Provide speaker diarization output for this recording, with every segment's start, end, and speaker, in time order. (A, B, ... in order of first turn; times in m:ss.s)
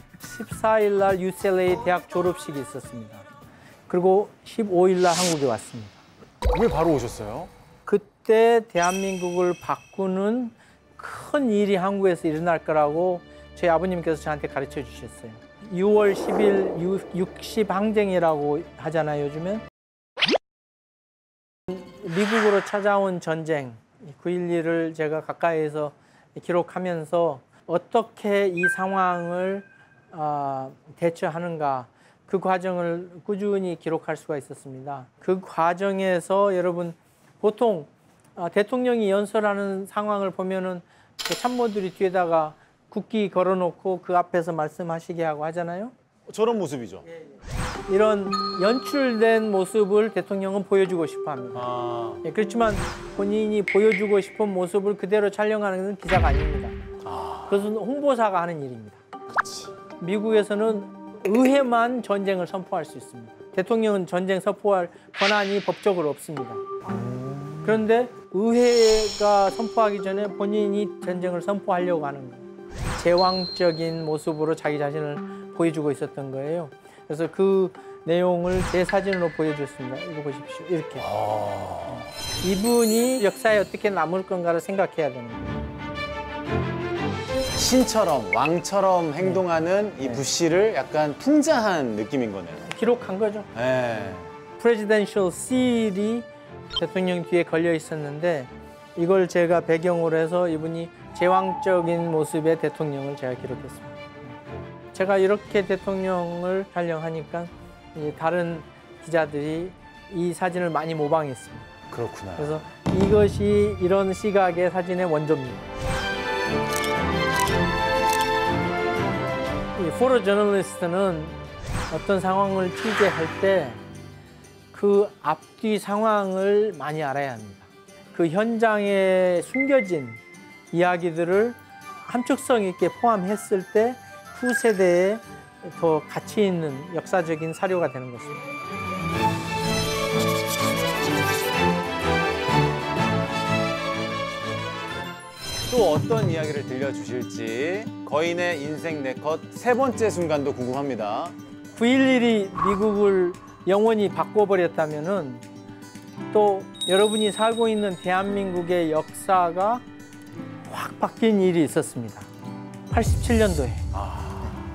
0:00.2-0:03.2 A
0:03.9-0:06.0 A
0:06.5-0:07.5 B
0:07.9-0:19.6 A
0:21.7-0:45.9 A
0:46.3-0:47.0 B
0:47.9-0:51.7 A
0:51.5-0:52.2 B
0:52.2-0:56.8 A
0:57.0-0:57.6 B
0:57.5-0:59.0 A
0:59.4-0:59.7 B
1:00.0-1:06.6 A
1:06.8-1:07.8 B
1:07.6-1:21.1 A
1:21.0-1:22.1 B
1:22.4-1:25.7 A
1:27.6-1:32.7 B
1:32.7-1:33.5 A
1:33.5-1:34.3 B
1:34.6-1:44.0 A
1:44.9-1:51.7 A
1:51.9-1:52.6 B
1:52.4-1:55.6 A
1:59.8-2:03.8 A
2:04.7-2:10.2 A
2:10.7-2:18.4 A
2:25.7-2:31.4 B
2:31.8-2:35.5 A
2:36.3-2:39.8 A
2:40.7-2:42.3 A
2:42.9-2:43.9 A
2:43.9-2:44.6 B